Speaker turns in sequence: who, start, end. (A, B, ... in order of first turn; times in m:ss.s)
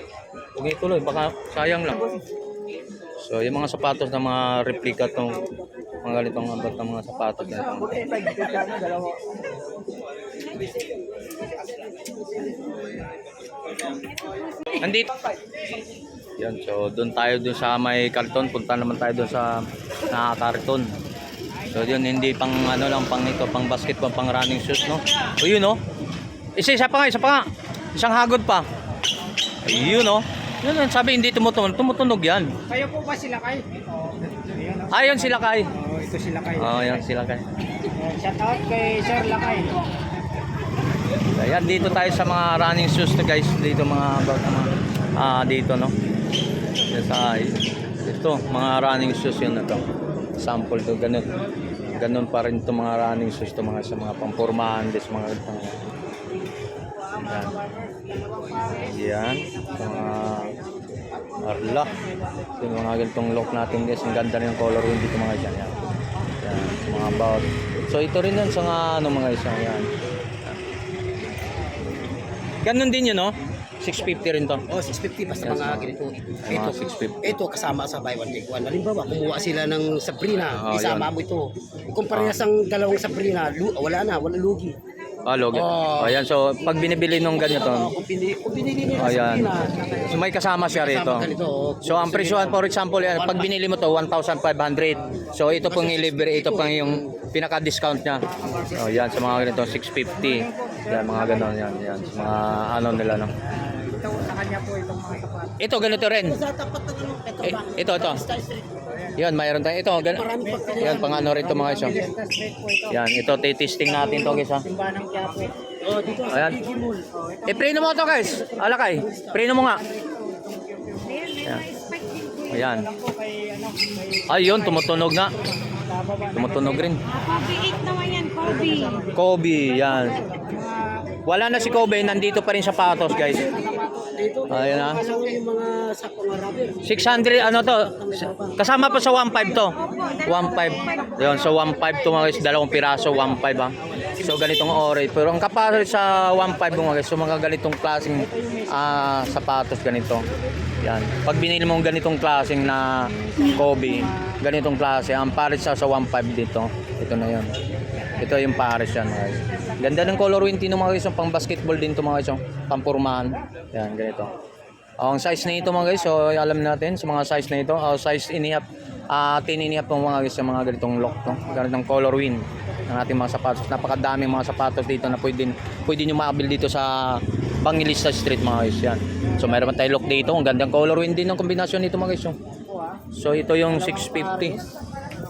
0:00.6-0:02.1 A
0:03.2-0:05.5 A
0:06.0-0:08.1 A
0:08.1-0:09.2 B
0:10.5-0:11.6 C
0:14.2-0:14.7 C
0:14.7-0:15.2 A
0:16.4-0:20.9 A
0:21.7-0:25.8 A
0:26.6-0:28.7 A
0:29.6-0:32.6 A
0:32.7-0:33.7 B
0:34.4-0:34.9 B
0:34.9-0:35.8 A
0:35.8-0:36.7 B
0:36.5-0:37.4 A
0:38.0-0:39.8 B
0:39.2-0:39.7 C
0:41.3-0:45.9 A
0:46.9-0:49.9 A
0:50.4-0:51.3 A
0:51.9-0:55.8 A
0:57.1-0:58.9 B
0:57.2-0:57.6 A
0:58.8-1:00.6 A
1:01.4-1:01.9 A
1:02.6-1:05.8 A
1:06.4-1:09.9 A
1:12.6-1:14.7 A
1:14.7-1:24.8 D
1:15.4-1:17.4 A
1:20.5-1:21.1 A
1:22.1-1:22.4 A
1:25.2-1:28.0 A
1:25.5-1:26.2 D
1:27.5-1:30.0 D
1:29.0-1:31.3 A
1:30.7-1:32.6 D
1:31.8-1:43.3 A
1:33.2-1:33.5 D
1:35.7-1:37.2 D
1:43.8-1:45.6 B
1:45.6-1:46.4 A
1:46.2-1:48.8 D
1:47.4-1:48.2 A
1:49.2-1:52.1 A
1:50.0-1:51.8 D
1:51.9-1:52.8 B
1:52.9-1:54.7 A
1:54.7-1:55.6 B
1:55.8-1:57.1 D
1:56.3-1:56.7 A
1:57.5-1:59.9 A
2:00.0-2:00.9 B
2:01.0-2:02.7 C
2:01.4-2:01.7 A
2:02.5-2:02.9 A
2:02.9-2:04.3 B
2:04.3-2:05.3 A
2:05.8-2:06.8 B
2:06.3-2:07.0 A
2:07.1-2:09.1 C
2:09.1-2:10.3 A
2:10.4-2:10.8 B
2:11.2-2:13.6 A
2:13.6-2:17.0 D
2:13.7-2:14.0 B
2:14.5-2:15.0 A
2:16.8-2:30.3 A
2:17.7-2:18.6 D
2:19.8-2:21.2 C
2:30.8-2:37.5 A
2:38.2-2:44.3 A
2:45.0-3:02.4 A
3:02.7-3:03.0 B
3:03.1-3:04.6 A